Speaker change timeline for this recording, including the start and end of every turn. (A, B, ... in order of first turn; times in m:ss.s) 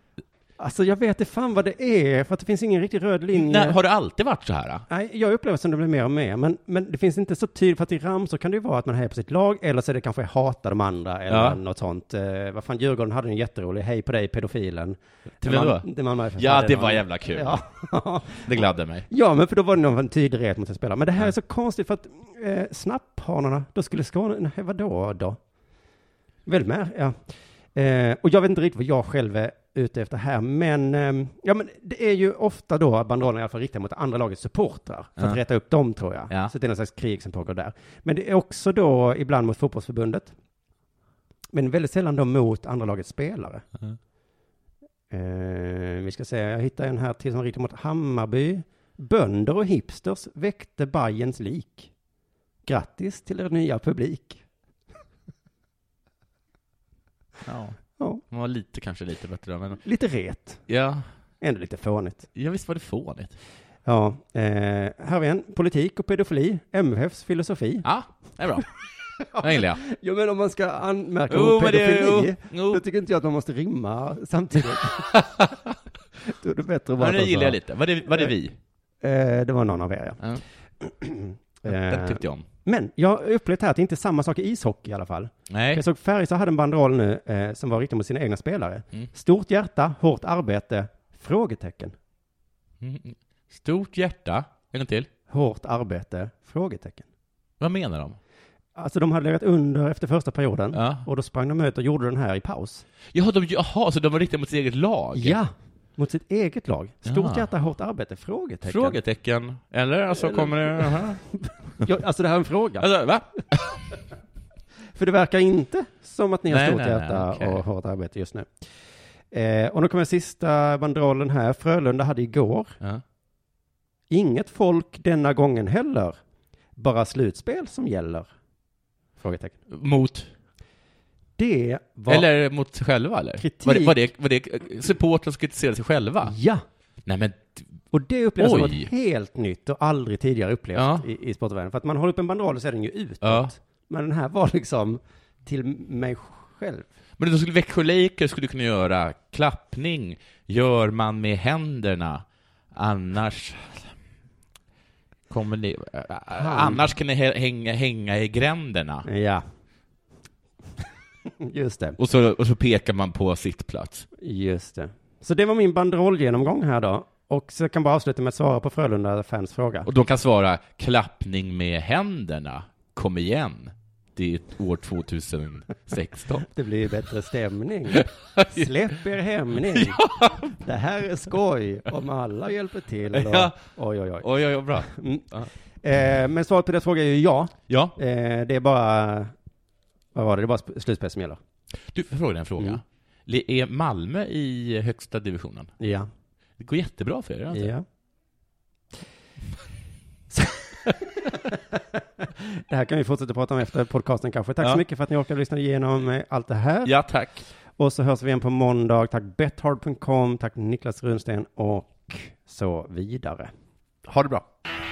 0:00.6-0:03.8 A
0:03.3-0:04.8 B
0:04.9-0:25.4 A
0:11.3-0:11.6 B
0:15.4-0:17.6 B
0:18.4-0:19.1 B
0:26.4-0:40.3 A
0:41.5-0:43.6 A
0:45.1-0:51.9 A
0:52.6-0:54.4 A
0:57.4-0:57.8 B
0:58.3-0:59.8 B
0:59.8-1:00.6 A
1:00.7-1:01.0 B
1:01.4-1:02.3 A
1:02.3-1:03.3 B
1:03.8-1:07.9 A
1:07.8-1:08.7 B
1:09.2-1:15.2 A
1:09.3-1:09.8 B
1:11.3-1:12.8 B
1:14.9-1:15.7 B
1:16.2-1:17.6 A
1:17.0-1:18.6 B
1:19.0-1:20.2 A
1:20.8-1:32.0 A
1:21.7-1:22.4 B
1:25.5-1:25.8 B
1:32.8-1:35.1 B
1:35.3-1:37.0 A
1:37.6-1:38.2 B
1:38.7-1:42.8 A
1:40.7-1:41.0 B
1:43.1-1:45.4 B
1:45.1-1:49.0 A
1:47.0-1:47.5 B
1:48.6-1:51.2 B
1:50.2-1:52.9 A
1:52.8-1:53.8 B
1:54.9-1:58.6 A
1:56.5-1:57.6 B
1:59.3-2:02.8 A
2:04.1-2:06.2 A
2:06.8-2:08.3 A
2:09.2-2:09.6 A
2:09.7-2:10.3 B
2:11.4-2:12.3 A
2:12.1-2:16.3 B
2:13.4-2:13.9 A
2:16.2-2:16.6 A
2:17.0-2:17.7 B
2:17.9-2:26.9 A
2:18.4-2:18.9 B
2:20.7-2:21.0 B
2:23.2-2:23.5 B
2:27.2-2:33.9 B
2:35.3-2:39.1 B
2:36.3-2:36.9 A
2:39.0-2:39.4 A
2:41.4-2:42.0 A
2:42.0-2:44.1 B
2:44.2-2:49.9 A
2:49.8-2:56.4 B
2:56.5-3:05.3 A
2:57.9-2:58.7 B
2:59.7-3:00.5 B
3:03.1-3:03.6 B
3:04.2-3:05.5 B
3:05.8-3:09.3 A
3:07.7-3:08.0 B
3:10.1-3:11.4 A
3:11.9-3:15.7 B
3:15.8-3:16.1 A
3:16.6-3:17.7 B
3:17.5-3:17.8 A
3:20.3-3:21.6 A
3:22.2-3:26.9 A
3:26.8-3:27.4 B
3:27.8-3:33.5 A
3:34.0-3:34.4 B